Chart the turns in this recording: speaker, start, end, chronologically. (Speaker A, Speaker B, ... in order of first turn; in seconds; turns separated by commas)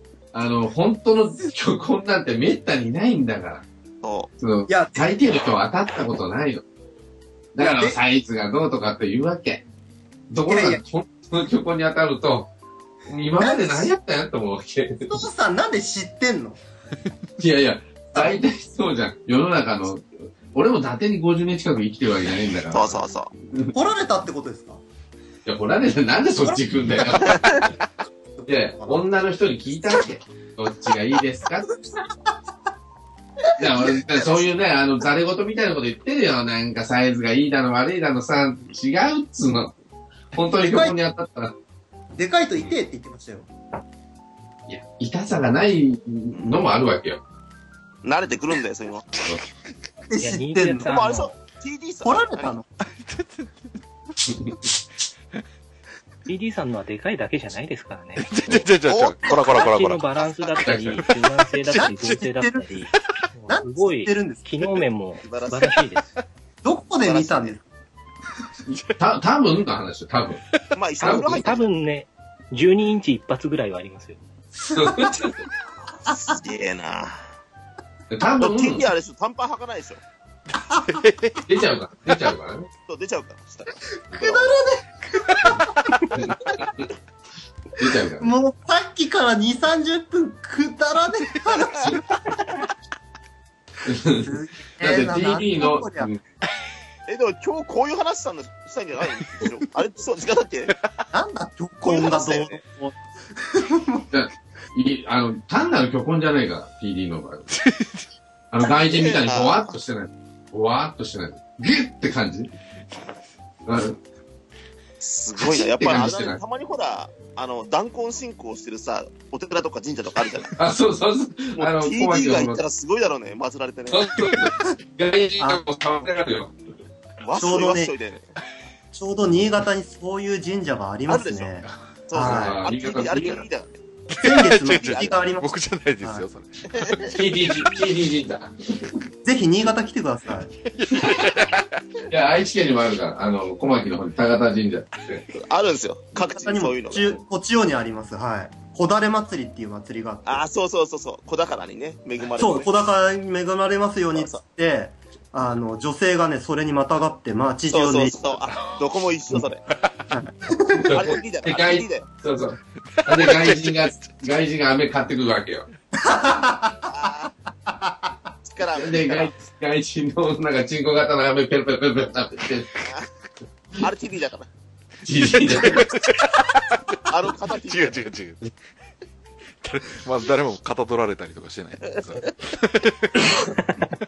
Speaker A: 0.3-3.6, Speaker B: 4.0-4.3, Speaker A: 4.4-6.6, Speaker C: 4.7-5.1, Speaker A: 7.5-9.6, Speaker C: 7.6-8.0, Speaker A: 10.3-12.5, Speaker C: 10.5-10.8, Speaker A: 13.1-15.2, Speaker C: 13.4-13.9, Speaker C: 15.1-16.6, Speaker A: 17.4-23.7, Speaker B: 22.7-23.3, Speaker C: 23.7-24.8, Speaker A: 25.4-27.7, Speaker C: 26.5-27.6, Speaker A: 28.4-31.7, Speaker C: 28.8-29.0, Speaker A: 33.6-39.7, Speaker A: 40.3-41.5, Speaker C: 40.5-40.9, Speaker C: 42.2-43.5, Speaker A: 44.7-47.2, Speaker B: 46.3-46.6, Speaker B: 48.0-49.1, Speaker C: 50.1-50.9, Speaker D: 50.2-51.3, Speaker B: 50.8-52.5, Speaker C: 52.0-52.7, Speaker E: 52.8-53.5, Speaker A: 54.3-54.6, Speaker D: 56.3-58.4, Speaker E: 58.1-60.2, Speaker B: 58.9-59.7, Speaker D: 59.4-66.0, Speaker A: 60.6-61.0, Speaker E: 61.0-62.2, Speaker C: 61.7-62.7, Speaker C: 63.5-64.7, Speaker B: 65.2-65.8, Speaker C: 66.6-67.6, Speaker B: 67.0-67.6, Speaker A: 68.7-70.4, Speaker B: 70.7-71.6, Speaker A: 71.0-71.5, Speaker D: 71.1-74.2, Speaker A: 74.6-75.3, Speaker C: 74.8-75.1, Speaker C: 76.0-76.3, Speaker B: 76.0-77.3, Speaker A: 78.1-78.8, Speaker B: 78.4-80.0, Speaker E: 80.8-81.4, Speaker A: 81.5-82.7, Speaker B: 82.9-84.4, Speaker C: 84.1-86.5, Speaker A: 84.1-84.4, Speaker E: 85.3-86.0, Speaker A: 86.2-86.7, Speaker A: 87.8-88.3, Speaker C: 88.2-92.2, Speaker B: 91.6-91.9, Speaker A: 93.8-96.2, Speaker C: 94.2-96.1, Speaker B: 97.1-100.7, Speaker C: 101.1-104.0, Speaker B: 101.8-102.6, Speaker A: 104.1-107.5, Speaker E: 107.5-108.0, Speaker A: 108.5-112.5, Speaker B: 108.7-109.7, Speaker A: 113.6-114.0, Speaker B: 115.0-120.5, Speaker A: 115.4-116.4, Speaker A: 120.5-122.6, Speaker B: 121.5-124.0, Speaker A: 123.9-126.5, Speaker C: 125.4-125.6, Speaker B: 127.2-128.3, Speaker C: 127.3-127.9, Speaker C: 128.9-132.6, Speaker B: 131.1-131.5, Speaker B: 132.1-133.8, Speaker A: 132.1-133.4, Speaker C: 134.1-136.2, Speaker E: 134.1-137.2, Speaker B: 134.7-135.2, Speaker B: 136.7-137.1, Speaker A: 137.1-138.9, Speaker C: 139.2-140.5, Speaker E: 140.6-141.8, Speaker A: 142.1-145.2, Speaker B: 145.3-147.1, Speaker C: 146.2-150.4, Speaker B: 150.2-152.7, Speaker C: 152.4-158.2, Speaker B: 154.2-154.4, Speaker B: 157.7-159.6, Speaker E: 159.7-160.2, Speaker C: 160.1-161.0, Speaker A: 160.7-165.7, Speaker B: 160.9-162.1, Speaker E: 162.9-163.9, Speaker C: 166.0-167.1, Speaker B: 166.8-167.3, Speaker C: 167.7-168.2, Speaker B: 168.4-169.3, Speaker A: 168.8-172.7, Speaker B: 173.8-174.5, Speaker A: 175.0-175.9, Speaker E: 175.5-178.4, Speaker B: 177.0-178.0, Speaker E: 179.6-183.3